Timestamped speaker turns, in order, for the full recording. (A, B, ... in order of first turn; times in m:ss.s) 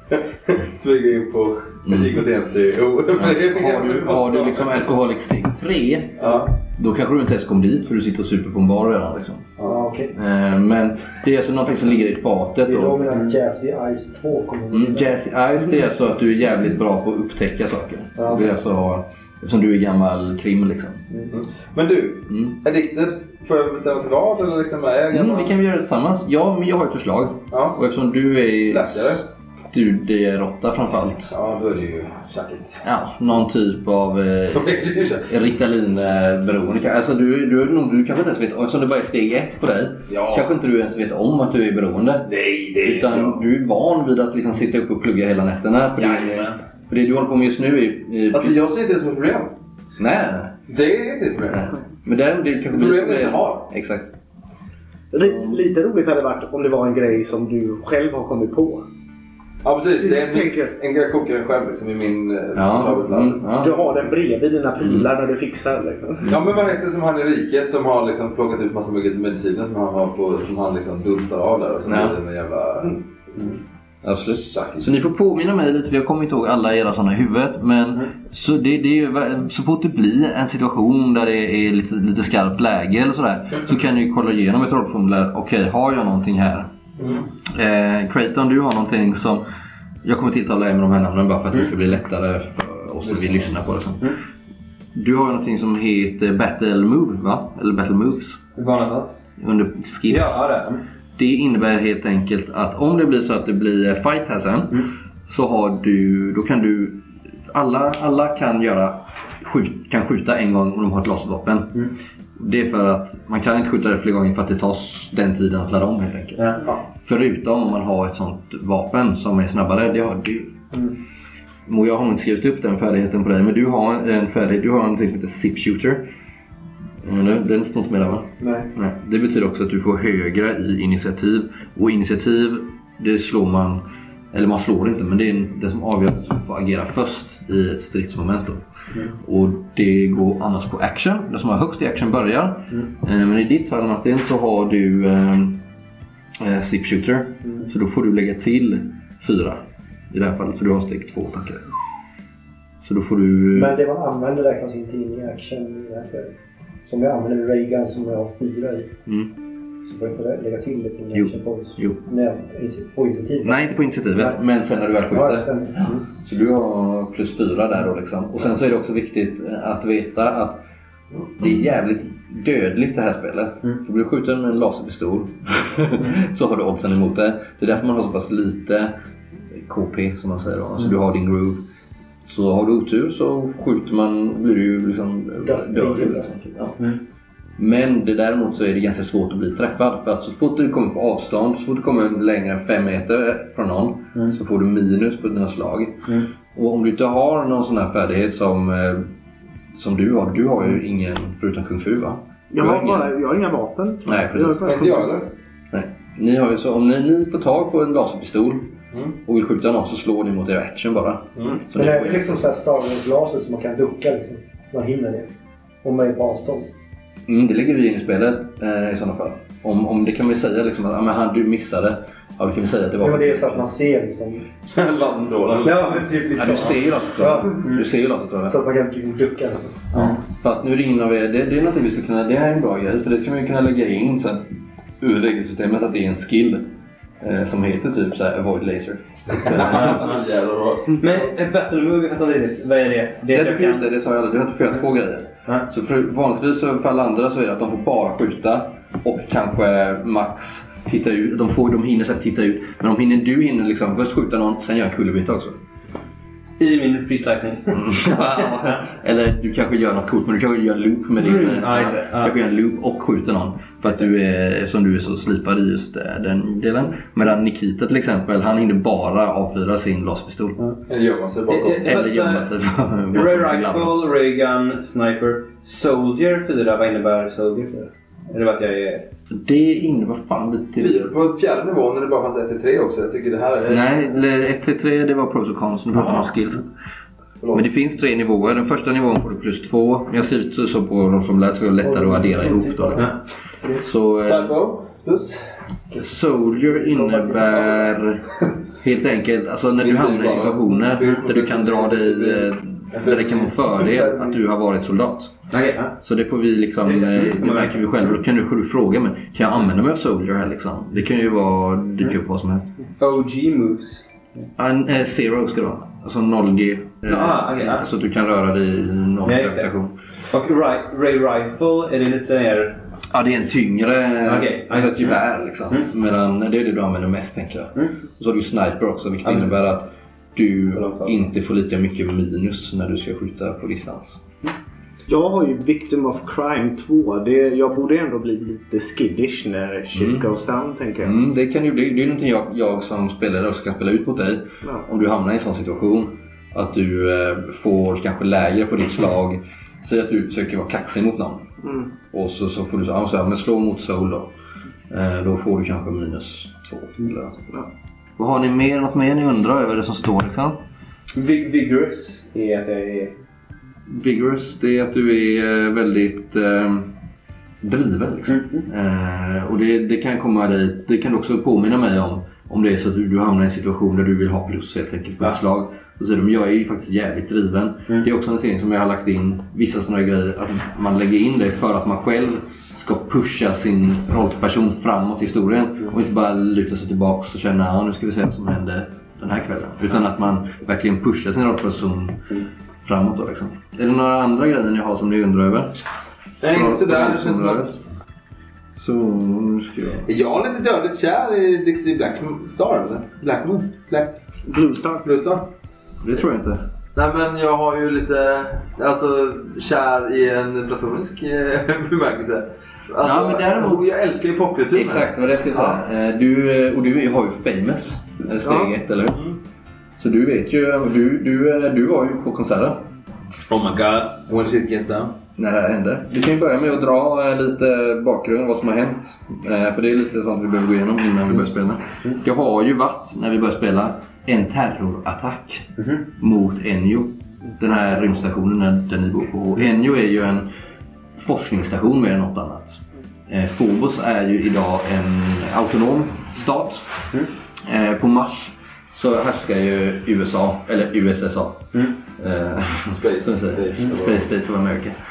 0:00.1-0:04.8 A
0:01.9-0:02.2 B
0:03.1-0:09.5 B
0:06.2-0:06.5 A
0:09.6-0:09.8 A
0:09.6-0:10.1 C
0:10.1-0:13.1 B
0:12.6-0:15.1 C
0:14.7-0:21.0 B
0:18.2-0:18.6 C
0:21.3-0:25.5 A
0:22.3-0:22.6 B
0:25.1-0:31.3 B
0:27.5-0:27.8 A
0:28.7-0:29.2 A
0:31.3-0:32.8 A
0:32.8-0:42.3 B
0:34.5-0:35.3 A
0:40.1-0:40.5 A
0:42.3-0:43.4 A
0:42.8-0:48.6 B
0:48.3-0:49.5 A
0:50.0-0:50.6 B
0:50.7-0:51.7 A
0:51.6-0:54.1 B
0:52.7-0:53.7 A
0:55.1-0:58.8 D
0:55.2-0:55.6 B
0:59.6-1:03.5 A
1:00.0-1:00.7 D
1:02.5-1:03.7 B
1:03.6-1:06.3 D
1:04.8-1:05.1 B
1:06.2-1:13.5 A
1:11.9-1:12.2 B
1:14.0-1:26.7 B
1:14.2-1:14.9 A
1:27.0-1:27.3 A
1:27.5-1:29.4 B
1:30.0-1:34.1 B
1:33.0-1:33.4 A
1:34.9-1:38.4 B
1:38.6-1:39.2 E
1:39.4-1:40.4 B
1:40.1-1:40.8 E
1:41.2-1:56.5 B
1:57.0-2:00.5 B
2:01.7-2:06.0 B
2:07.0-2:13.8 B
2:08.4-2:08.7 C
2:14.3-2:18.6 B
2:19.2-2:25.6 B
2:26.4-2:31.6 B
2:32.8-2:33.8 B
2:33.5-2:38.9 C
2:39.0-2:39.3 B
2:39.8-2:44.4 C
2:41.1-2:42.0 B
2:43.4-2:50.6 B
2:45.1-2:46.0 C
2:51.4-2:58.9 B
2:59.5-3:01.6 B
3:02.2-3:06.8 B
3:05.4-3:06.3 C
3:07.6-3:19.1 B
3:19.8-3:23.1 B
3:22.5-3:25.2 D
3:24.0-3:24.7 B
3:24.6-3:25.3 A
3:25.7-3:28.7 B
3:29.2-3:32.5 B
3:31.4-3:31.6 A
3:31.7-3:35.3 C
3:35.8-3:36.7 C
3:37.3-3:43.6 B
3:43.0-3:44.4 C
3:44.7-3:45.9 A
3:45.6-3:47.8 C
3:46.3-3:48.6 B
3:48.4-3:50.1 C
3:50.2-3:54.4 B
3:55.0-3:56.6 B
3:57.2-4:00.0 B
3:59.3-4:01.2 A
4:01.0-4:03.8 E
4:03.3-4:15.6 B
4:16.6-4:17.9 E
4:17.7-4:30.6 B
4:21.2-4:22.3 E
4:30.9-4:31.9 A
4:31.5-4:32.5 E
4:31.8-4:34.0 B
4:33.1-4:39.0 E
4:39.3-4:41.1 B
4:40.8-4:43.9 A
4:43.7-4:46.6 B
4:47.5-4:53.1 B
4:51.8-4:53.1 C
4:53.8-4:54.5 B
4:54.2-4:55.4 A
4:56.0-4:58.3 B
4:56.6-4:57.9 C
4:58.8-5:05.3 B
4:59.8-5:04.0 A
5:05.5-5:05.9 E
5:06.0-5:12.6 B
5:06.8-5:08.1 E
5:13.0-5:14.0 E
5:14.6-5:19.9 B
5:17.0-5:17.9 E
5:19.2-5:19.7 E
5:20.3-5:22.8 E
5:23.1-5:34.2 B
5:24.2-5:25.2 E
5:29.2-5:29.6 E
5:30.7-5:31.2 E
5:35.1-5:41.2 D
5:39.9-5:40.3 B
5:41.0-5:54.3 B
5:54.9-5:57.5 B
5:58.2-6:00.6 B
6:01.1-6:03.2 E
6:03.9-6:06.9 B
6:07.6-6:35.8 B
6:08.3-6:08.6 E
6:36.4-6:37.6 A
6:36.5-6:37.8 B
6:38.7-6:40.1 B
6:40.0-6:44.1 A
6:44.5-6:45.1 D
6:45.0-6:45.4 A
6:46.0-6:46.6 B
6:46.9-6:55.1 A
6:53.0-6:53.8 B
6:54.7-6:59.2 B
6:58.4-6:58.7 D
6:59.1-6:59.4 A
7:00.0-7:02.9 B
7:03.5-7:05.2 A
7:05.4-7:20.5 B
7:21.2-7:26.9 B
7:27.6-7:35.0 B
7:32.9-7:34.3 A